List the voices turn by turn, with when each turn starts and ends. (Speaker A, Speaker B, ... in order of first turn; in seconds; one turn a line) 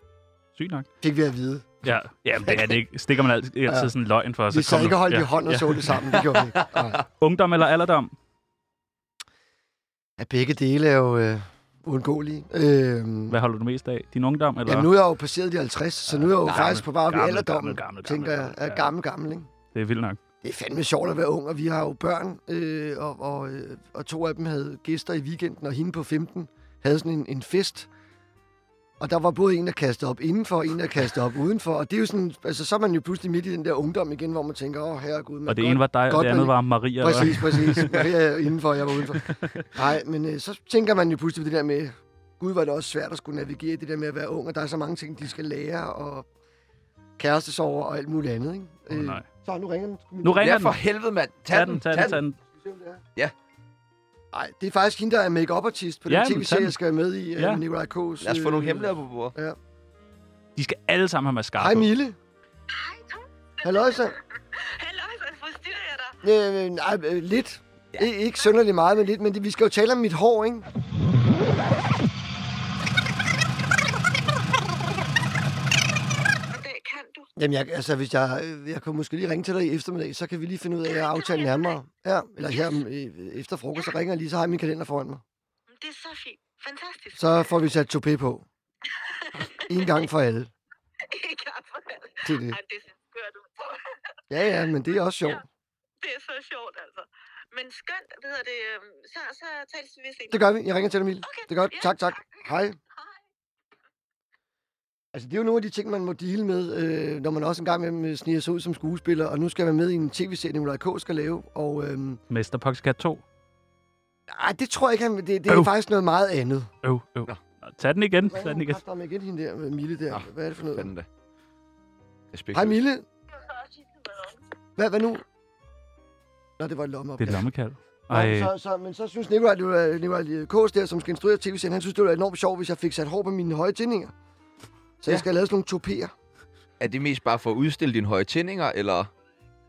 Speaker A: 0.6-0.9
Speaker B: 1.0-1.8
Speaker A: 1.8-6.2
Speaker B: 2.4-2.8
Speaker B: 3.7-3.9
Speaker B: 4.5-7.0
Speaker C: 6.6-6.9
Speaker A: 7.2-8.1
Speaker B: 10.2-13.4
Speaker A: 13.3-14.9
Speaker B: 14.7-19.5
Speaker A: 16.1-18.9
Speaker C: 16.4-16.7
Speaker A: 19.7-20.2
Speaker B: 20.4-27.9
Speaker B: 29.0-46.3
Speaker A: 35.5-38.1
Speaker A: 39.2-39.6
Speaker B: 47.2-50.5
Speaker A: 48.9-49.3
Speaker A: 50.2-50.8
Speaker C: 50.4-52.2
Speaker A: 51.5-52.4
Speaker B: 52.0-53.0
Speaker B: 54.3-59.6
Speaker A: 56.1-56.8
Speaker A: 57.4-57.6
Speaker C: 58.2-59.4
Speaker A: 60.6-61.9
Speaker B: 61.6-62.2
Speaker D: 62.7-66.2
Speaker B: 63.6-64.2
Speaker B: 66.2-70.7
Speaker D: 76.5-77.3
Speaker B: 77.4-85.2
Speaker D: 80.9-81.8
Speaker D: 85.7-87.5
Speaker B: 87.2-88.5
Speaker D: 88.9-90.1
Speaker B: 89.7-90.5
Speaker D: 91.0-94.2
Speaker B: 92.2-92.6
Speaker B: 94.3-95.4
Speaker D: 96.0-100.4
Speaker B: 100.3-102.8
Speaker D: 101.2-102.4
Speaker B: 105.1-112.2
Speaker A: 112.3-113.2
Speaker B: 114.3-116.7
Speaker A: 116.8-118.8
Speaker B: 118.3-120.9
Speaker C: 120.1-121.1
Speaker C: 122.3-122.8
Speaker B: 122.5-123.1
Speaker D: 123.4-124.4
Speaker B: 124.8-125.2
Speaker B: 126.6-127.5
Speaker A: 127.2-128.5
Speaker B: 128.1-134.1
Speaker B: 135.0-136.1
Speaker C: 136.8-139.1